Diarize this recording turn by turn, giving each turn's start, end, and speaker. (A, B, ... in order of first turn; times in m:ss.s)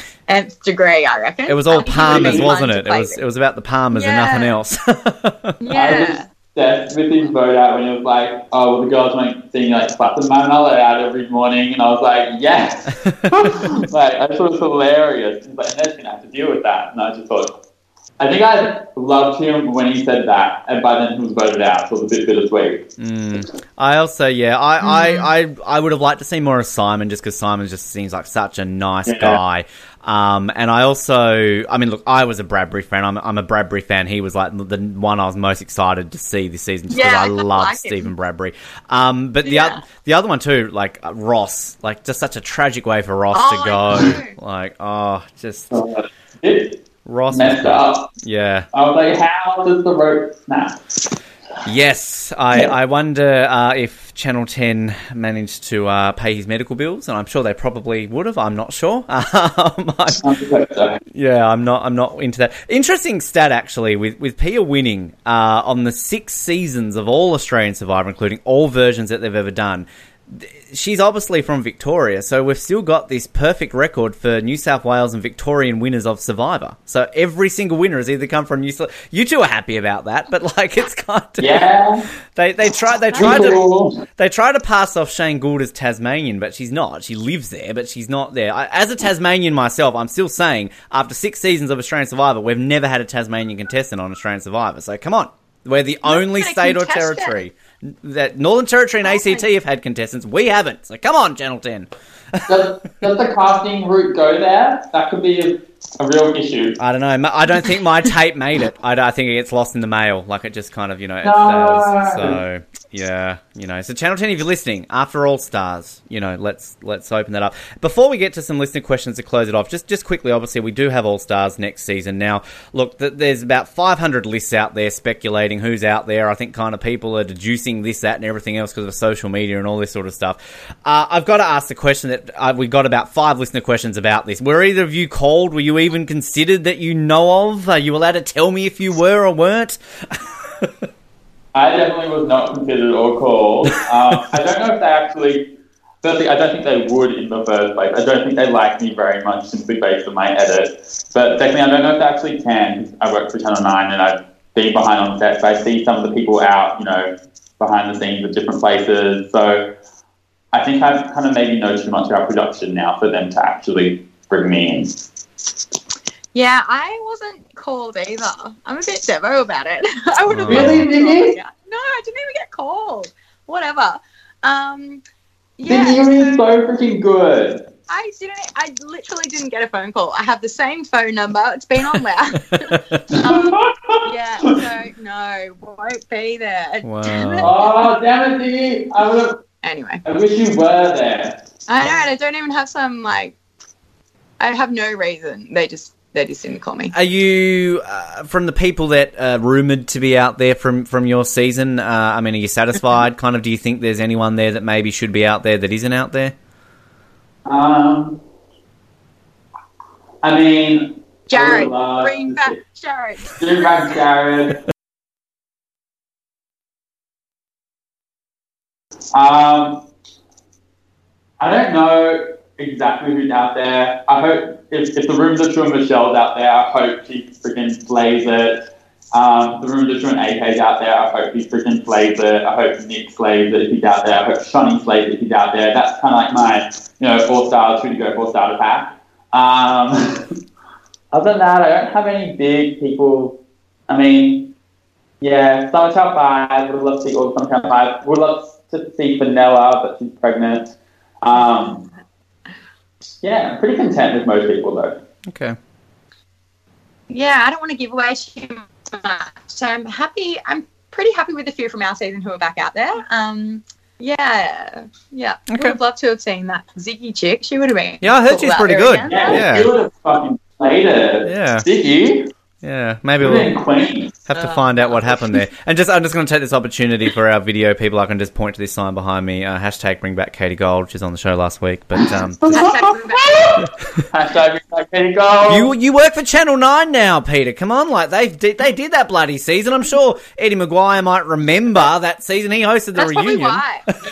0:00.3-0:03.2 A
0:01.5-0:05.6 B
0:01.9-0:02.5 C
0:03.9-0:04.5 A
0:05.6-0:06.3 A
0:05.7-0:17.6 C
0:13.0-0:13.5 B
0:18.2-0:22.9 C
0:23.0-0:45.7 B
0:24.8-0:25.3 A
0:29.0-0:29.4 C
0:36.9-0:38.1 A
0:39.4-0:39.8 A
0:43.3-0:44.3 A
0:45.7-0:48.1 C
0:47.0-0:48.7 B
0:48.7-0:50.8 C
0:51.6-1:00.3 B
1:00.2-1:01.0 C
1:01.1-1:21.7 B
1:21.4-1:22.1 C
1:22.3-1:42.6 B
1:23.1-1:24.0 C
1:36.0-1:37.4 A
1:39.0-1:39.4 A
1:42.5-1:46.8 C
1:46.8-2:20.9 B
1:51.2-1:52.4 C
2:21.5-2:39.7 C
2:40.5-2:45.0 C
2:46.3-2:55.0 A
2:50.3-2:50.9 B
2:50.5-2:51.4 C
2:55.6-2:56.5 A
2:55.7-2:57.6 C
2:57.9-3:07.9 A
3:02.5-3:03.0 B
3:03.1-3:04.5 C
3:06.8-3:07.5 B
3:07.4-3:09.4 C
3:09.6-3:10.0 A
3:10.0-3:11.4 C
3:11.7-3:13.4 A
3:14.4-3:16.9 A
3:16.9-3:26.4 B
3:27.4-3:28.2 C
3:30.2-3:32.6 C
3:31.3-3:33.8 A
3:33.3-3:34.6 C
3:39.1-3:39.8 C
3:41.4-4:00.3 C
4:01.1-4:04.5 C
4:05.2-4:11.8 C
4:13.2-4:15.0 C
4:15.3-4:15.6 B
4:17.1-4:29.4 A
4:25.5-4:25.8 B
4:28.0-4:29.7 B
4:29.1-4:32.3 C
4:31.2-4:31.6 B
4:32.6-4:33.5 B
4:33.2-4:34.2 C
4:34.3-4:42.6 B
4:34.3-4:35.0 A
4:42.0-4:45.7 C
4:42.5-4:43.6 A
4:45.5-4:53.6 B
4:53.0-4:53.8 A